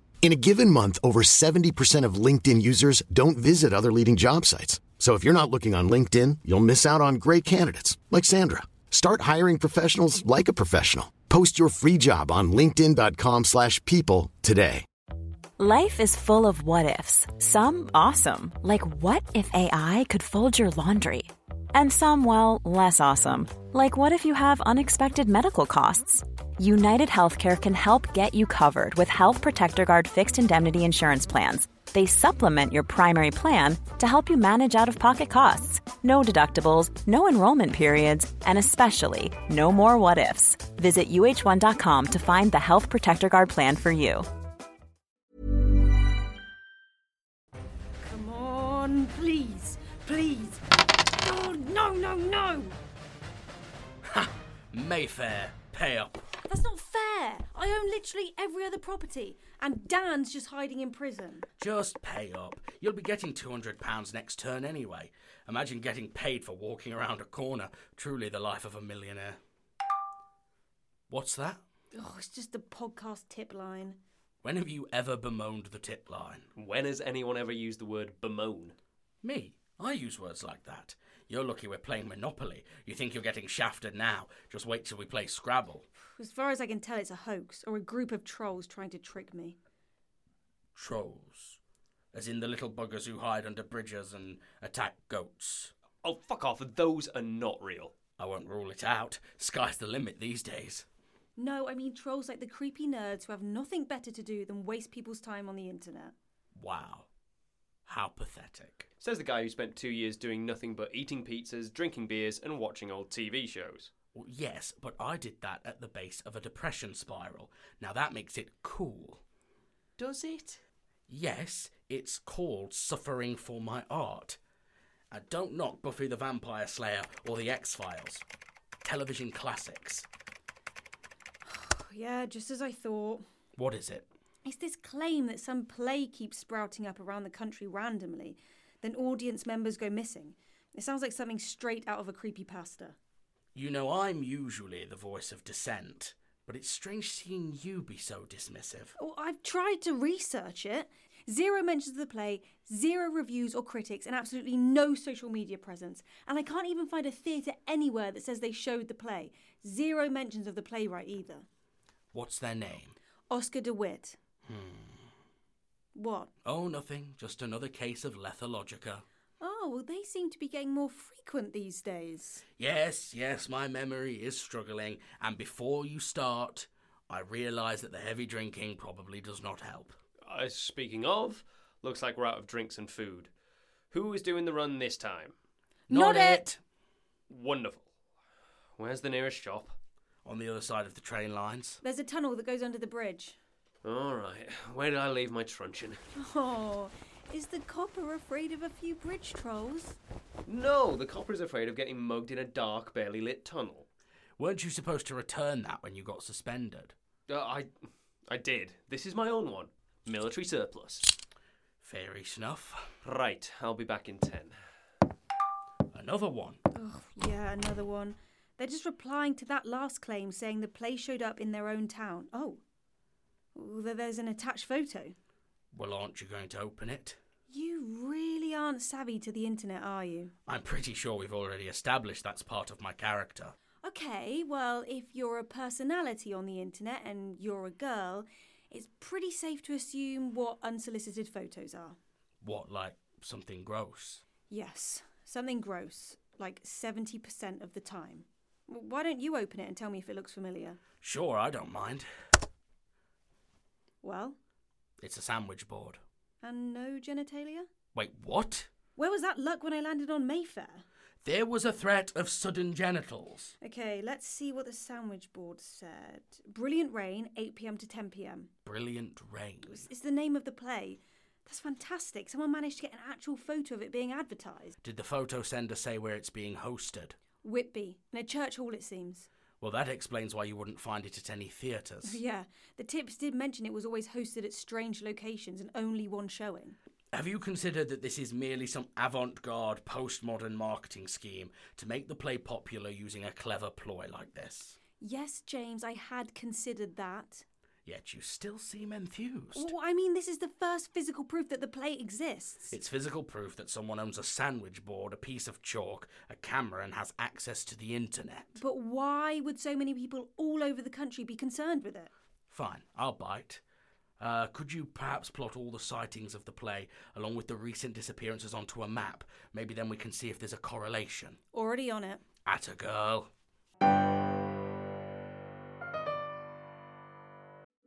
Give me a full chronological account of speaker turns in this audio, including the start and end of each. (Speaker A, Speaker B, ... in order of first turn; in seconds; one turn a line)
Speaker A: 0.2-14.8
Speaker B: 15.6-44.3
Speaker C: 48.0-52.8
Speaker D: 54.1-56.2
Speaker C: 56.5-61.5
Speaker D: 61.6-69.4
Speaker D: 71.1-71.6
Speaker C: 71.9-74.0
Speaker D: 74.4-76.5
Speaker E: 76.6-78.8
Speaker D: 79.2-85.9
Speaker C: 86.2-89.6
Speaker D: 90.8-91.6
Speaker D: 92.1-95.7
Speaker E: 96.0-98.0
Speaker D: 98.2-100.9
Speaker C: 101.4-106.1
Speaker D: 106.6-107.1
Speaker D: 107.9-108.9
Speaker E: 109.0-113.9
Speaker D: 114.1-119.2
Speaker E: 120.0-120.6
Speaker D: 121.1-124.4
Speaker D: 125.1-128.2
Speaker D: 128.8-130.1
Speaker C: 131.5-133.2
Speaker D: 133.6-134.1
Speaker C: 134.4-143.0
Speaker D: 143.6-148.9
Speaker C: 149.0-161.5
Speaker D: 162.1-163.0
Speaker C: 163.3-164.2
Speaker D: 164.5-164.9
Speaker C: 165.9-166.3
Speaker D: 166.4-169.0
Speaker C: 169.4-172.4
Speaker D: 172.6-180.0
Speaker E: 180.2-183.3
Speaker E: 183.9-185.3
Speaker C: 185.9-186.5
Speaker D: 185.9-186.6
Speaker E: 187.3-187.9
Speaker E: 188.8-189.8
Speaker D: 190.2-191.8
Speaker C: 191.8-193.4
Speaker E: 193.8-196.0
Speaker C: 196.1-200.0
Speaker E: 200.5-203.9
Speaker D: 204.4-206.9
Speaker E: 207.3-207.7
Speaker E: 208.3-211.2
Speaker D: 211.8-212.9
Speaker E: 213.0-214.6
Speaker D: 215.9-216.6
Speaker C: 216.7-222.6
Speaker C: 223.6-225.2
Speaker D: 225.7-227.2
Speaker C: 227.5-230.3
Speaker D: 230.5-233.6
Speaker C: 233.8-242.0
Speaker D: 242.4-244.2
Speaker C: 244.5-250.8
Speaker D: 251.0-252.1
Speaker C: 254.0-254.4
Speaker D: 255.0-256.0
Speaker C: 256.4-257.7
Speaker D: 257.9-258.7
Speaker C: 259.0-260.8
Speaker D: 261.2-263.5
Speaker C: 263.6-268.5
Speaker D: 268.6-269.9
Speaker C: 269.7-274.8
Speaker D: 274.8-277.2
Speaker C: 277.4-279.3
Speaker D: 279.6-282.2
Speaker C: 282.0-286.8
Speaker D: 287.1-294.8
Speaker C: 295.0-297.4
Speaker D: 297.9-299.7
Speaker C: 299.6-302.7
Speaker D: 302.7-308.6
Speaker C: 308.6-312.1
Speaker D: 312.5-313.6
Speaker D: 314.2-321.4
Speaker C: 321.5-322.2
Speaker D: 322.5-323.3